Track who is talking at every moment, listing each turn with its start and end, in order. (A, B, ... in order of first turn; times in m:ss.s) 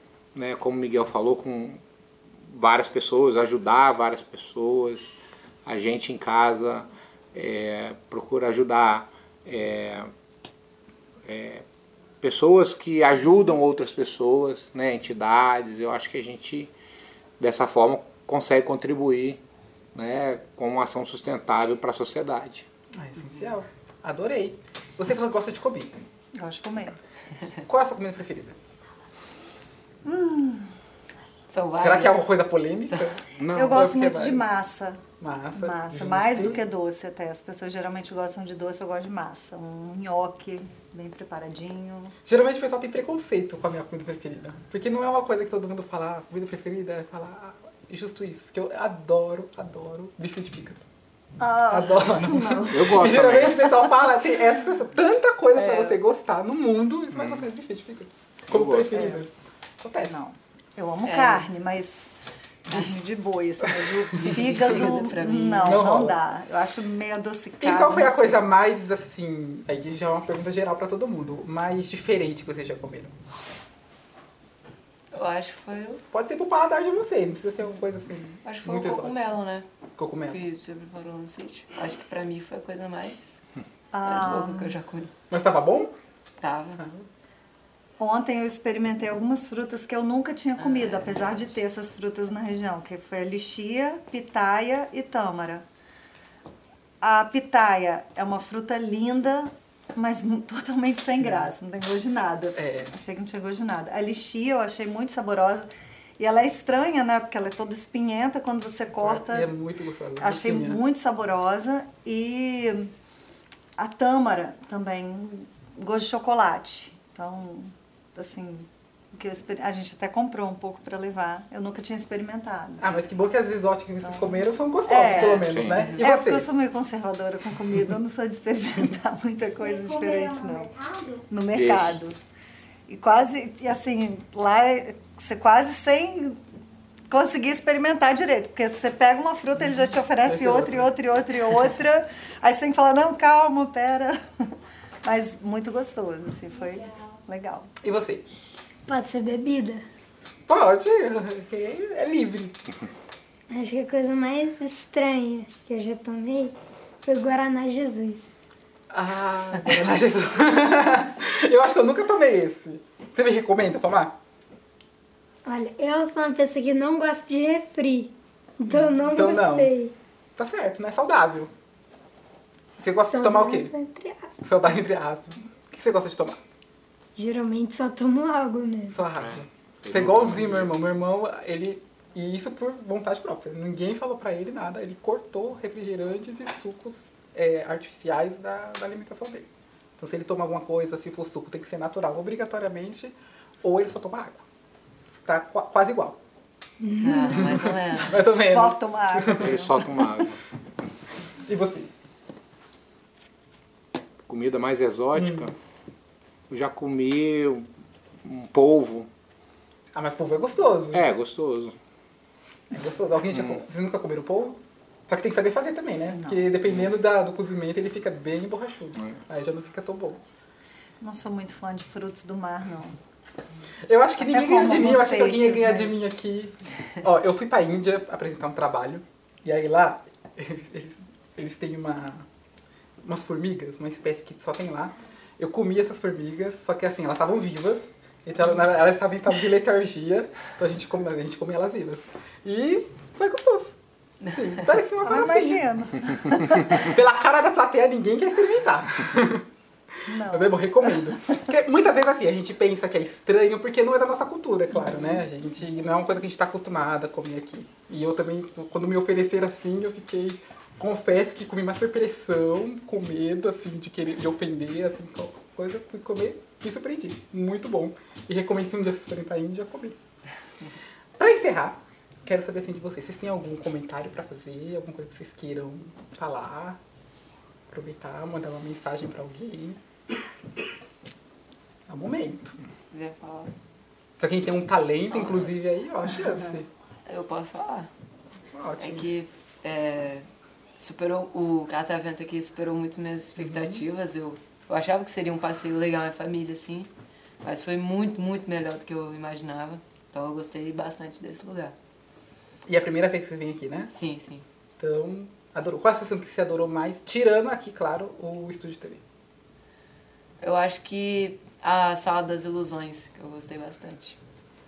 0:00.3-0:01.8 A
0:02.4-0:05.1 A
0:05.6-0:10.1 A
0:11.2-0:11.6 A
0:12.2-0:16.7 A
0:17.4-0:19.4 A
0:19.9-0:22.6 A
0:23.0-0:25.9 B
0:23.2-0:23.5 C
0:26.4-0:27.0 D
0:27.6-0:28.6 B
0:30.0-0:30.7 D
0:31.5-0:33.1 C
0:31.8-0:34.5 B
0:33.4-0:33.9 A
0:33.5-0:35.0 D
0:35.2-0:36.6 B
0:35.5-0:42.1 D
0:42.2-0:50.8 B
0:51.4-0:53.8 D
0:51.7-0:59.3 B
0:52.7-0:53.8 A
0:55.5-0:56.0 D
0:57.1-0:57.4 A
0:58.5-0:59.0 A
0:58.9-0:59.2 D
0:59.8-1:00.2 B
1:00.0-1:02.1 D
1:01.0-1:01.5 C
1:02.7-1:08.4 D
1:04.2-1:05.9 C
1:04.6-1:04.8 B
1:05.6-1:06.2 B
1:07.6-1:13.1 B
1:15.1-1:16.0 C
1:16.1-1:19.3 B
1:18.4-1:19.6 C
1:20.0-1:20.4 B
1:20.2-1:23.4 C
1:23.9-1:24.8 D
1:24.0-1:25.1 C
1:25.3-1:25.9 B
1:26.4-1:26.8 C
1:26.8-1:27.0 B
1:28.0-1:35.6 D
1:30.6-1:31.6 C
1:37.0-1:49.5 D
1:41.2-1:41.5 B
1:42.6-1:42.9 B
1:49.0-1:50.8 B
1:50.2-1:52.9 D
1:53.8-2:02.9 D
2:02.8-2:06.5 B
2:04.0-2:10.7 D
2:05.4-2:05.8 A
2:05.7-2:06.1 C
2:09.6-2:11.4 E
2:11.3-2:12.2 D
2:11.5-2:12.1 A
2:12.9-2:16.4 D
2:17.1-2:24.2 D
2:20.2-2:20.9 B
2:25.0-2:27.7 D
2:27.8-2:28.2 B
2:28.8-2:29.8 E
2:30.5-2:32.6 B
2:33.5-2:38.3 E
2:38.9-2:44.1 B
2:45.4-2:49.9 E
2:48.7-2:49.7 B
2:50.4-2:51.5 B
2:52.8-2:53.7 B
2:53.1-2:54.4 E
2:54.4-2:56.4 B
2:57.2-2:59.0 E
2:58.9-3:14.4 B
2:59.2-3:00.7 A
3:15.1-3:16.2 B
3:16.9-3:17.4 E
3:17.0-3:18.2 C
3:17.3-3:19.7 B
3:18.1-3:19.7 D
3:19.4-3:20.4 A
3:21.5-3:21.9 B
3:24.3-3:25.5 A
3:25.1-3:25.5 B
3:26.5-3:27.7 A
3:28.2-3:29.1 A
3:29.9-3:31.0 B
3:30.9-3:31.7 A
3:32.7-3:40.2 B
3:33.3-3:33.6 A
3:36.1-3:36.5 D
3:36.6-3:37.0 A
3:41.0-3:42.9 D
3:43.8-3:52.2 B
3:44.2-3:46.1 D
3:53.0-4:03.8 B
4:04.2-4:04.8 C
4:04.3-4:05.6 B
4:05.0-4:06.8 D
4:06.7-4:09.4 B
4:10.1-4:11.4 D
4:10.3-4:30.0 B
4:14.7-4:15.2 D
4:31.2-4:36.8 B
4:37.7-4:39.8 B
4:41.9-4:42.6 B
4:42.9-4:43.5 C
4:44.2-4:46.7 B
4:45.1-4:45.5 C
4:47.1-4:47.9 C
4:48.5-4:49.1 B
4:48.8-4:50.2 C
4:50.8-4:56.9 C
4:53.4-4:53.8 B
4:57.4-5:01.7 C
5:02.6-5:03.9 B
5:03.9-5:04.4 C
5:04.8-5:09.0 B
5:10.4-5:14.2 C